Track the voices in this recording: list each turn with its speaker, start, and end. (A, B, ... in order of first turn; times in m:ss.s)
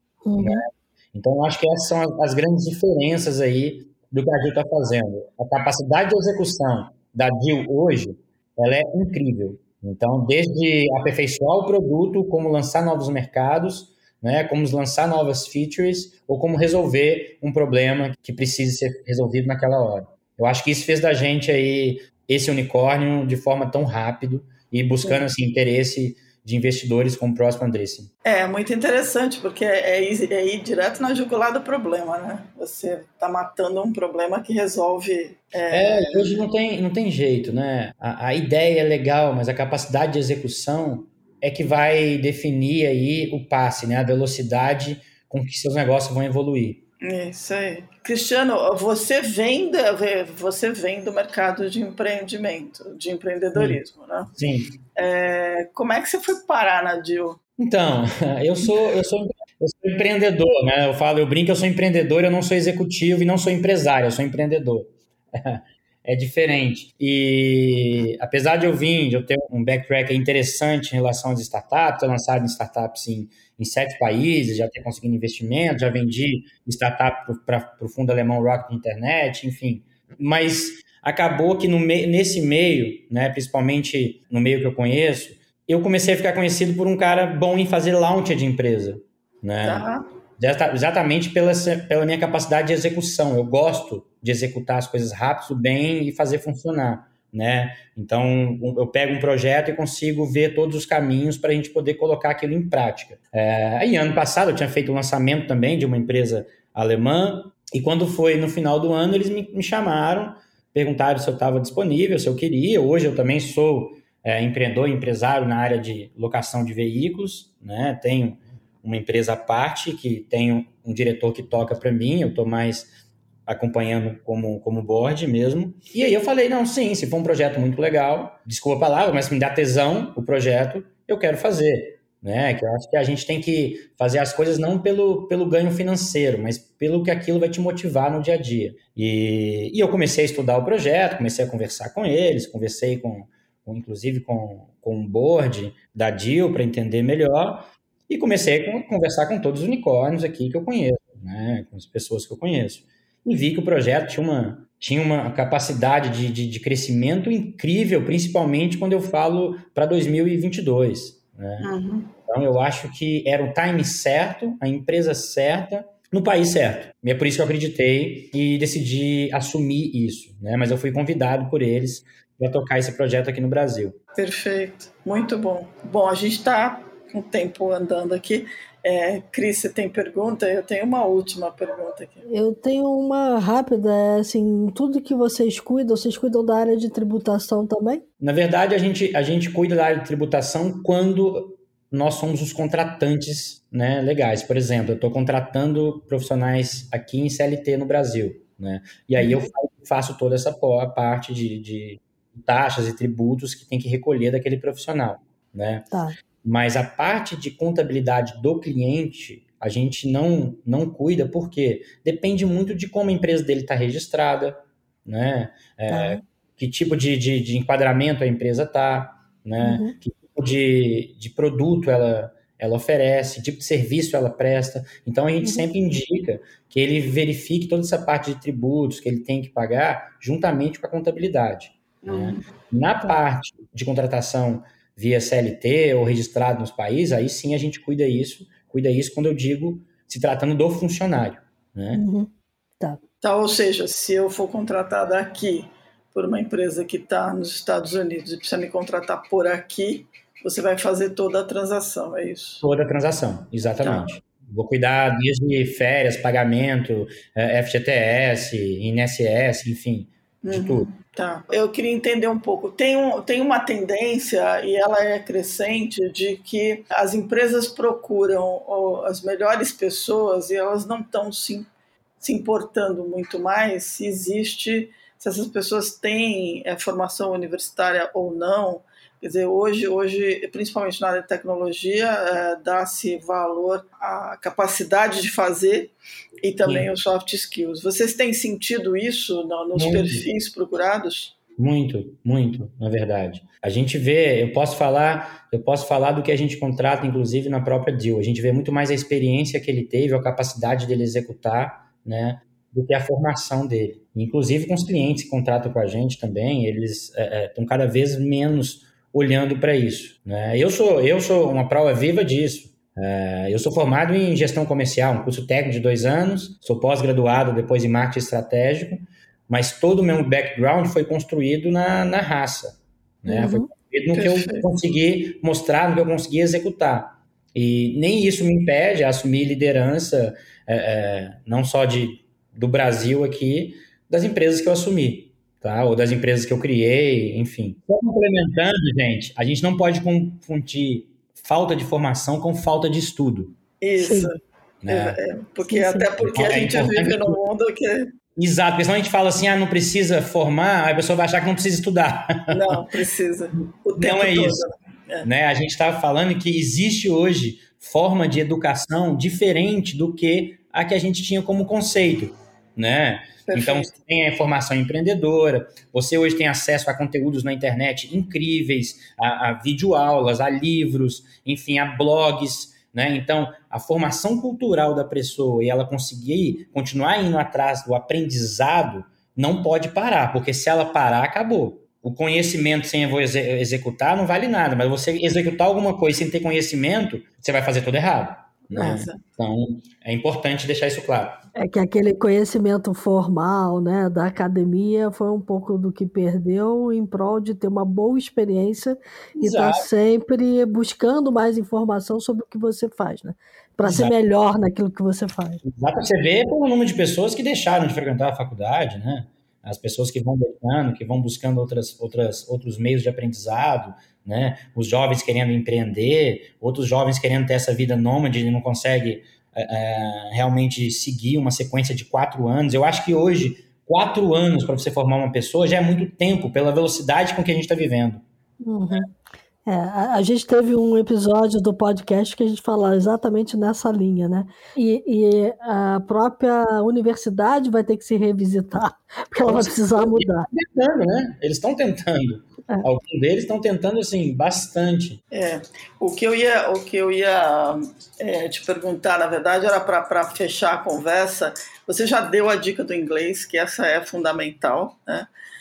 0:00.2-0:00.7 A
0:00.4-0:28.1 B
0:28.2-0:36.4 C
0:35.7-0:46.8 B
0:47.0-0:54.3 C
0:53.6-0:53.8 B
0:54.4-0:54.8 B
0:55.0-0:57.4 C
0:57.6-1:29.9 B
1:29.6-1:30.0 C
1:30.4-2:02.9 B
2:03.5-2:41.7 B
2:41.6-2:42.1 C
2:42.2-2:54.0 B
2:54.2-3:02.2 C
3:02.3-3:08.0 A
3:08.2-3:25.9 B
3:25.9-3:26.2 A
3:26.4-4:02.0 B
3:35.9-3:36.2 A
3:39.6-3:40.0 A
3:52.0-3:52.4 C
4:01.9-4:03.0 A
4:03.2-4:12.6 C
4:12.6-4:20.9 B
4:13.8-4:14.1 C
4:20.4-4:31.7 C
4:32.2-4:45.9 C
4:46.4-4:51.4 C
4:46.6-4:46.9 B
4:49.8-4:50.2 B
4:51.6-5:43.6 B
5:23.3-5:23.7 A
5:24.2-5:24.7 C
5:43.8-5:44.4 C
5:44.0-5:44.3 A
5:44.8-5:45.2 B
5:44.9-5:48.1 C
5:45.7-5:46.1 A
5:46.2-5:47.4 B
5:48.4-5:52.8 B
5:52.5-5:55.3 C
5:54.0-5:54.6 B
5:55.2-6:31.4 B
6:03.5-6:03.9 C
6:28.7-6:29.2 C
6:31.6-6:45.6 A
6:39.4-6:39.9 B
6:43.8-6:44.1 B
6:45.6-7:08.2 B
7:08.6-7:09.1 A
7:09.7-7:20.5 A
7:19.4-7:25.2 B
7:25.3-7:35.3 C